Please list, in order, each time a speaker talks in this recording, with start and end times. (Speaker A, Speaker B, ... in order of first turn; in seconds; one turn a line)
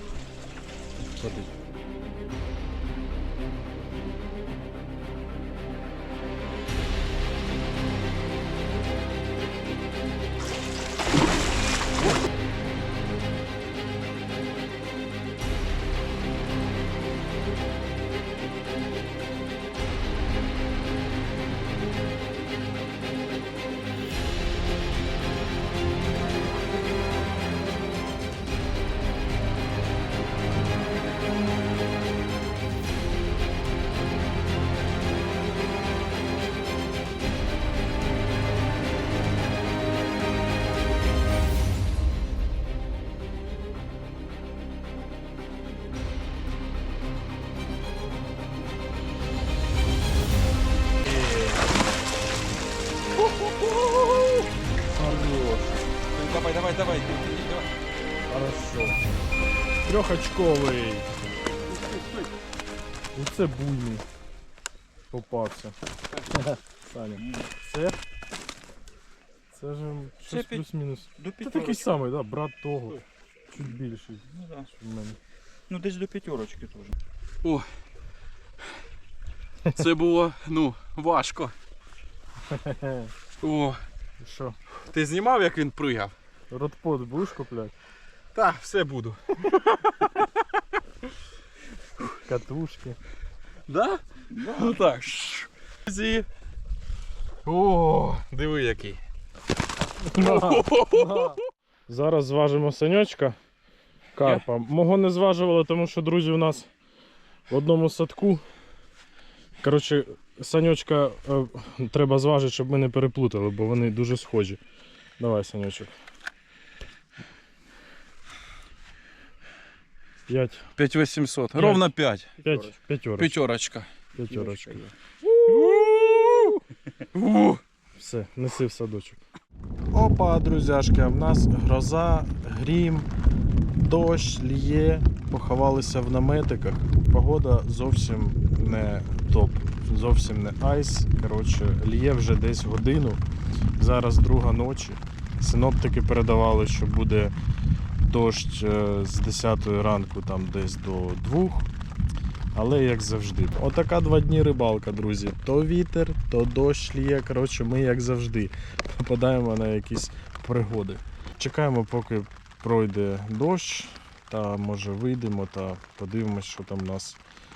Speaker A: 1.2-1.5
Speaker A: 51.0-51.7
Speaker B: 53.5-54.0
Speaker A: 54.9-55.8
Speaker B: 56.1-57.7
Speaker A: 58.3-59.0
Speaker A: 59.9-61.1
Speaker B: 61.7-62.2
Speaker A: 63.1-64.0
Speaker A: 65.1-65.8
Speaker A: 66.3-68.0
Speaker C: 67.2-67.5
Speaker A: 69.5-75.2
Speaker C: 70.3-72.0
Speaker C: 74.2-74.7
Speaker C: 75.7-77.0
Speaker B: 79.8-81.5
Speaker A: 82.5-83.1
Speaker B: 83.4-83.8
Speaker A: 84.2-84.6
Speaker B: 84.9-86.1
Speaker A: 86.5-87.7
Speaker B: 88.3-90.2
Speaker A: 92.2-93.0
Speaker B: 93.7-96.2
Speaker B: 97.5-99.0
Speaker A: 100.0-103.4
Speaker B: 100.2-101.4
Speaker A: 104.2-106.7
Speaker A: 107.5-108.5
Speaker A: 109.6-114.6
Speaker A: 115.2-115.9
Speaker A: 120.3-120.7
Speaker B: 120.8-122.4
Speaker A: 121.5-121.9
Speaker A: 122.4-123.3
Speaker C: 122.4-122.7
Speaker B: 123.2-123.9
Speaker A: 124.1-124.8
Speaker C: 124.3-124.9
Speaker B: 125.4-126.6
Speaker B: 127.1-127.6
Speaker A: 128.0-129.2
Speaker A: 129.9-133.1
Speaker A: 133.7-143.2
Speaker A: 143.8-147.3
Speaker A: 148.0-151.7
Speaker A: 152.5-167.2